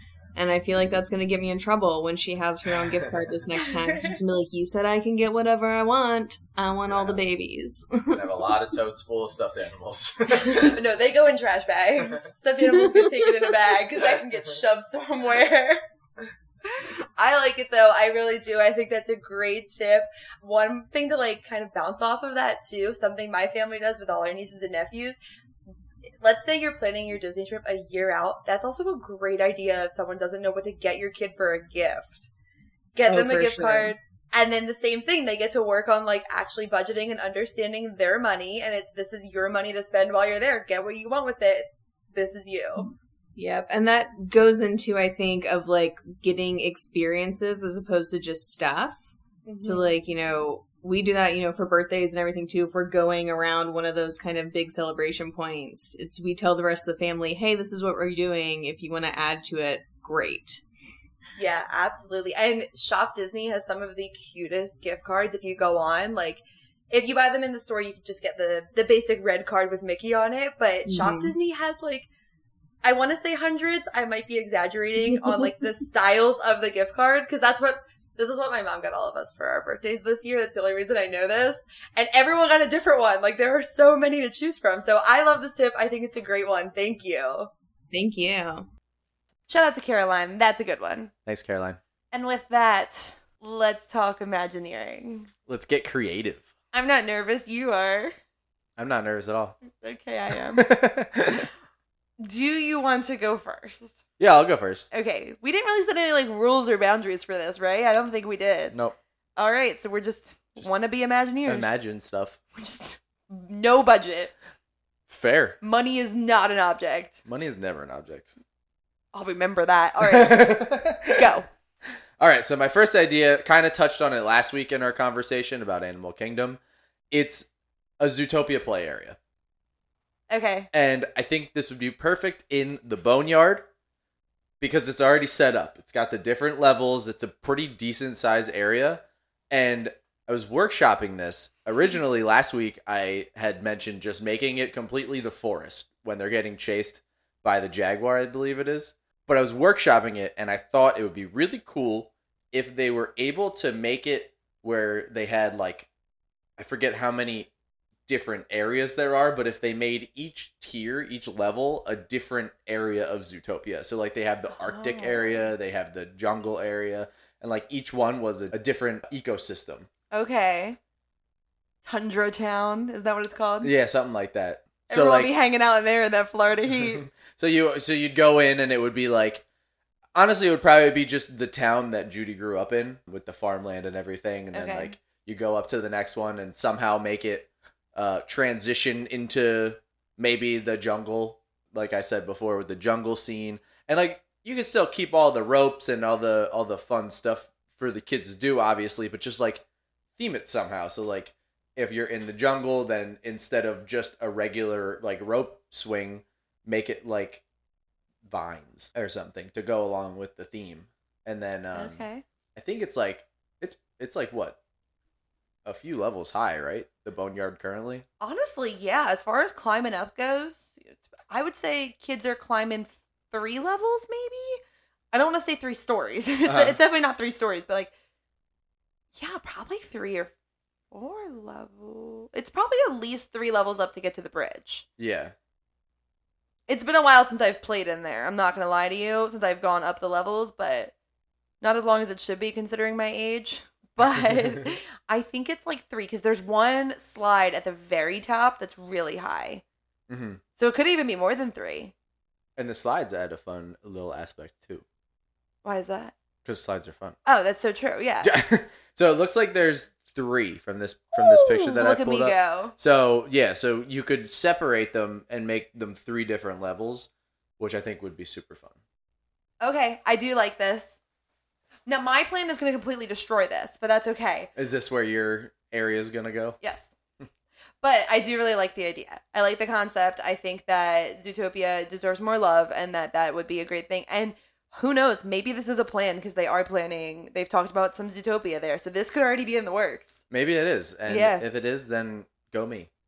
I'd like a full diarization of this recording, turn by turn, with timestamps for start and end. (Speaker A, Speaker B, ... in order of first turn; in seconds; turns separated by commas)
Speaker A: 0.3-8.2, Speaker B: 2.8-3.2, Speaker C: 3.7-4.2, Speaker B: 6.9-7.2, Speaker B: 8.1-10.8, Speaker C: 10.5-15.8, Speaker C: 16.6-25.2, Speaker C: 26.2-32.3, Speaker C: 33.0-42.9, Speaker A: 33.1-34.0, Speaker A: 43.4-60.6, Speaker C: 49.5-49.9, Speaker C: 61.4-72.1, Speaker A: 70.9-71.3, Speaker C: 72.8-87.5, Speaker A: 87.9-88.7, Speaker C: 89.5-91.1, Speaker B: 91.3-91.8, Speaker C: 92.1-95.3, Speaker B: 95.5-96.5, Speaker C: 96.7-98.2, Speaker B: 98.8-99.6, Speaker C: 99.7-100.7, Speaker B: 100.3-101.5, Speaker C: 102.2-104.0, Speaker B: 104.2-104.9, Speaker C: 104.9-108.8, Speaker C: 109.4-111.7, Speaker B: 111.5-112.4, Speaker C: 112.6-114.3, Speaker B: 115.1-115.6, Speaker C: 115.6-117.2, Speaker B: 117.3-118.3, Speaker C: 119.1-121.5, Speaker B: 120.0-121.3, Speaker B: 122.2-126.6, Speaker B: 127.1-129.2, Speaker C: 130.3-130.7, Speaker B: 130.7-133.7, Speaker B: 134.6-155.9, Speaker B: 156.6-157.5, Speaker B: 158.1-169.9, Speaker C: 164.6-165.5, Speaker C: 170.1-170.8, Speaker C: 171.8-173.7, Speaker B: 173.6-175.3, Speaker C: 174.9-177.1, Speaker B: 176.7-179.4, Speaker B: 180.2-199.6, Speaker C: 184.5-185.0, Speaker B: 200.2-207.4, Speaker B: 208.2-212.0, Speaker C: 211.8-212.2, Speaker B: 212.6-214.6, Speaker B: 215.7-218.1, Speaker C: 218.2-224.6, Speaker C: 225.1-227.9, Speaker B: 226.5-226.8, Speaker C: 229.2-230.3, Speaker C: 230.9-234.9, Speaker B: 235.0-235.3, Speaker C: 236.7-240.9, Speaker C: 241.6-249.6, Speaker B: 250.1-250.4, Speaker C: 250.6-251.9, Speaker B: 252.6-254.8, Speaker C: 255.6-256.1, Speaker B: 256.4-257.2, Speaker C: 257.2-258.4, Speaker B: 258.2-268.7, Speaker C: 261.1-262.8, Speaker C: 269.6-271.0, Speaker C: 271.9-274.5, Speaker B: 274.6-276.6, Speaker C: 276.6-276.9, Speaker C: 277.8-290.1, Speaker B: 290.3-292.9, Speaker C: 291.1-291.4